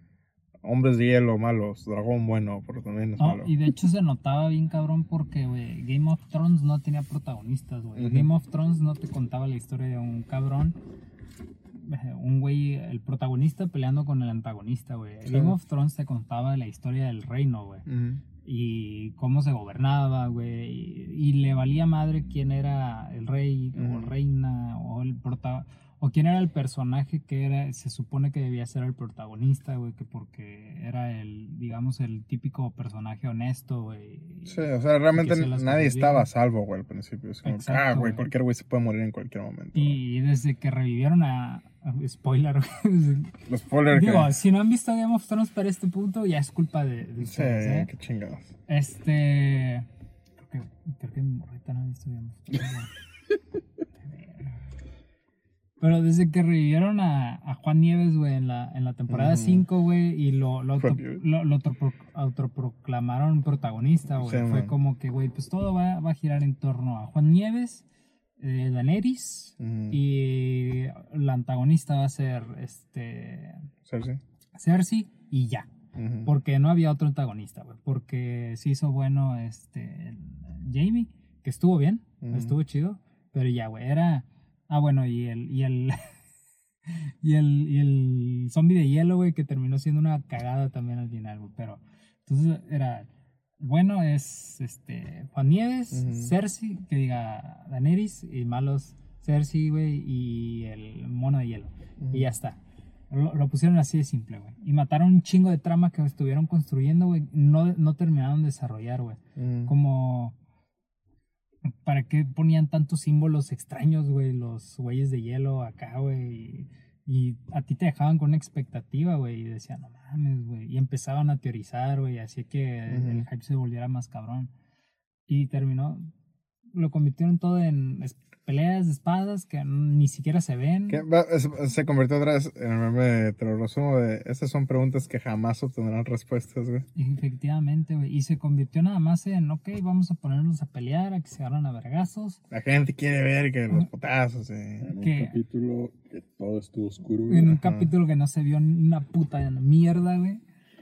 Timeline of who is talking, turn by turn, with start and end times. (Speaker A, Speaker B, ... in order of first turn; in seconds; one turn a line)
Speaker A: 0.6-3.5
Speaker B: 3.2-10.8
Speaker A: 7.9-8.3
Speaker B: 11.7-17.9
Speaker A: 15.2-15.6
Speaker A: 17.9-18.2
Speaker B: 18.4-36.3
Speaker A: 23.7-24.1
Speaker A: 34.4-40.0
Speaker B: 37.4-38.2
Speaker B: 39.7-43.4
Speaker A: 43.5-44.3
Speaker B: 43.9-47.9
Speaker A: 47.2-48.5
Speaker B: 48.7-49.9
Speaker B: 50.4-52.9
Speaker B: 54.0-54.6
Speaker B: 55.8-67.8
Speaker A: 59.1-59.6
Speaker A: 60.8-61.2
Speaker A: 64.1-64.7
Speaker B: 68.4-73.7
Speaker A: 69.6-70.0
Speaker A: 73.8-74.2
Speaker B: 74.5-75.7
Speaker A: 76.0-76.3
Speaker B: 76.2-86.1
Speaker A: 82.2-82.6
Speaker B: 86.8-93.1
Speaker B: 93.6-102.6
Speaker A: 95.9-96.3
Speaker A: 102.0-102.3
Speaker B: 103.1-110.3
Speaker A: 109.3-109.7
Speaker B: 111.6-124.5
Speaker A: 122.9-123.2
Speaker B: 125.3-126.1
Speaker B: 126.7-131.0
Speaker A: 130.9-136.8
Speaker B: 136.9-142.4
Speaker A: 142.5-144.9
Speaker C: 144.8-147.6
Speaker B: 145.0-145.4
Speaker B: 147.3-150.4
Speaker A: 147.4-147.9